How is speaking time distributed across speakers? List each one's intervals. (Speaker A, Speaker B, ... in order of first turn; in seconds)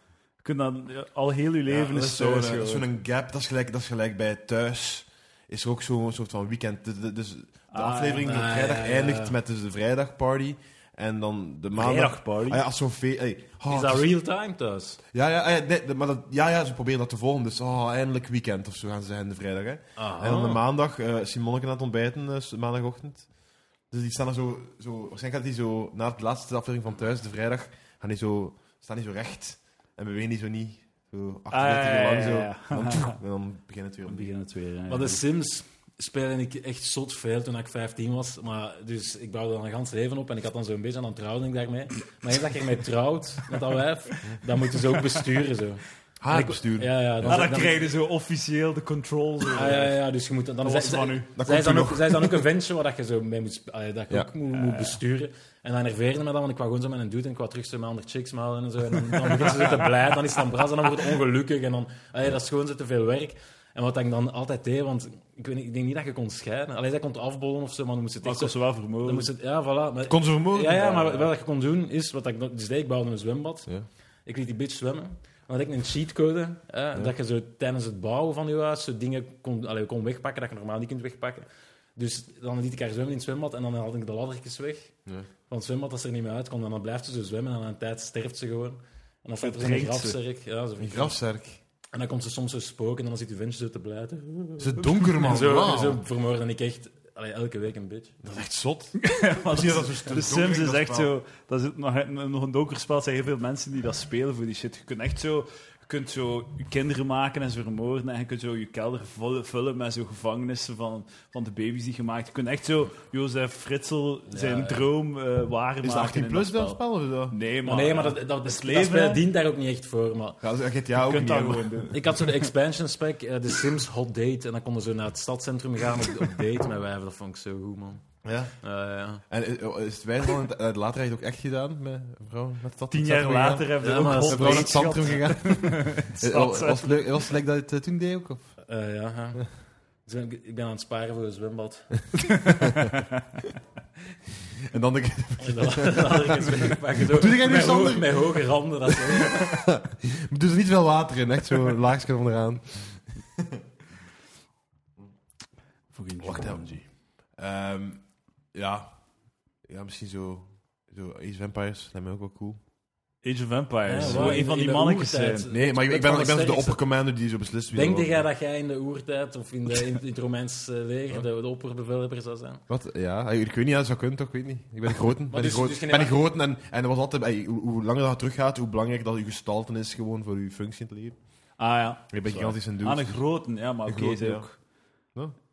Speaker A: 0.4-2.9, 7.7-8.4, 11.8-12.6, 31.5-33.2, 34.1-35.2, 47.2-50.0, 50.6-51.3, 54.5-55.0, 68.2-69.3, 89.4-90.2, 99.0-119.2, 121.0-122.5, 132.9-137.1, 142.3-143.2, 155.9-156.9, 163.2-165.5, 181.6-184.6
Speaker B: 1.7-14.1, 15.1-23.3, 23.9-34.3, 46.2-47.5, 51.3-52.5, 70.1-71.3, 90.8-91.6, 94.6-96.0, 98.2-101.1, 115.8-117.4, 120.4-121.9, 128.2-128.5, 129.3-138.6, 142.6-142.9, 144.7-153.6, 156.2-156.7, 157.3-159.0, 159.6-162.6, 164.0-164.4, 165.5-168.3, 172.7-181.4, 182.1-184.5
Speaker C: 8.2-9.4, 13.7-15.0, 20.0-20.6, 34.9-47.9, 49.5-73.7, 74.3-85.0, 85.5-91.2, 91.9-98.2, 114.3-114.9, 117.6-120.4, 121.9-128.0, 128.6-129.2, 133.8-135.2, 138.6-142.1, 145.4-149.6, 163.9-166.9, 167.7-172.6, 175.3-176.2